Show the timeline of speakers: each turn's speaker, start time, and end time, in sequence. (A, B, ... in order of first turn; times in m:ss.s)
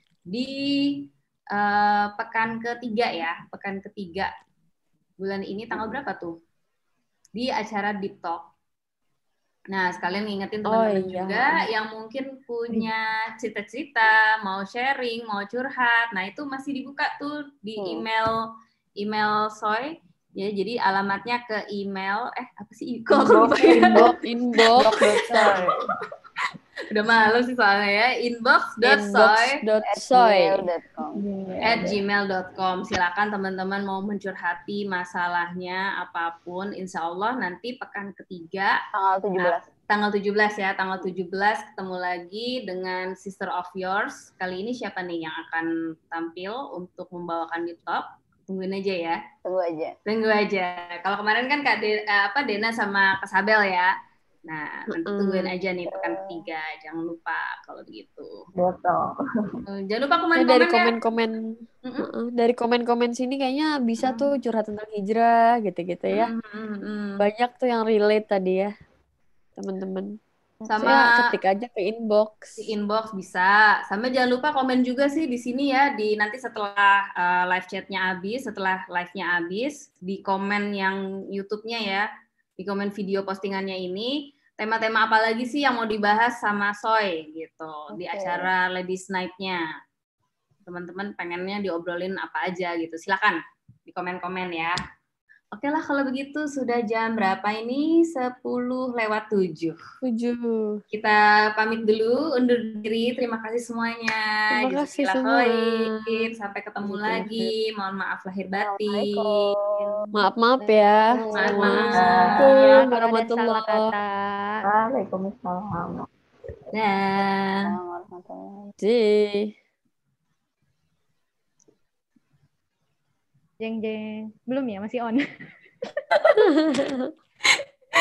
0:00.3-0:04.3 A
0:05.2-0:06.4 A
0:07.4-0:08.5 A
0:09.7-0:18.5 A
0:10.7-0:11.7 B
0:17.8-0:18.0 C
0:19.0-0:24.0 A
0:23.3-0:24.0 C
0:23.6-0:25.8 B
0:24.8-0:25.9 A
0:26.9-0:29.6 A
0:28.8-0:30.7 B
0:29.9-0:31.2 C
0:31.3-0:31.9 B
0:31.6-0:38.8 A
0:39.0-0:39.7 C
0:39.4-0:49.2 A
0:49.4-0:50.0 C
0:50.1-0:53.9 A
0:54.5-0:58.4 A
0:54.9-0:55.5 B
0:55.9-0:56.5 C
0:58.6-0:59.6 D
0:59.7-1:00.9 A
1:00.4-1:06.3 B
1:01.8-1:02.1 A
1:04.0-1:04.3 A
1:06.1-1:07.2 A
1:07.2-1:08.7 B
1:09.6-1:10.2 B
1:10.7-1:11.2 A
1:10.8-1:12.7 B
1:12.6-1:22.1 A
1:22.6-1:29.6 A
1:27.9-1:28.5 C
1:30.7-1:34.8 A
1:35.5-1:39.8 A
1:40.0-1:40.8 B
1:40.9-1:50.0 A
1:44.6-1:46.3 B
1:46.9-1:47.5 B
1:48.6-1:50.0 C
1:50.1-1:53.9 B
1:51.4-1:52.1 C
1:51.4-1:52.8 A
1:52.0-1:54.6 E
1:54.6-1:56.1 D
1:56.7-1:57.6 A
1:57.6-1:58.7 C
1:58.8-1:59.5 B
2:03.6-2:05.2 E
2:06.4-2:07.1 B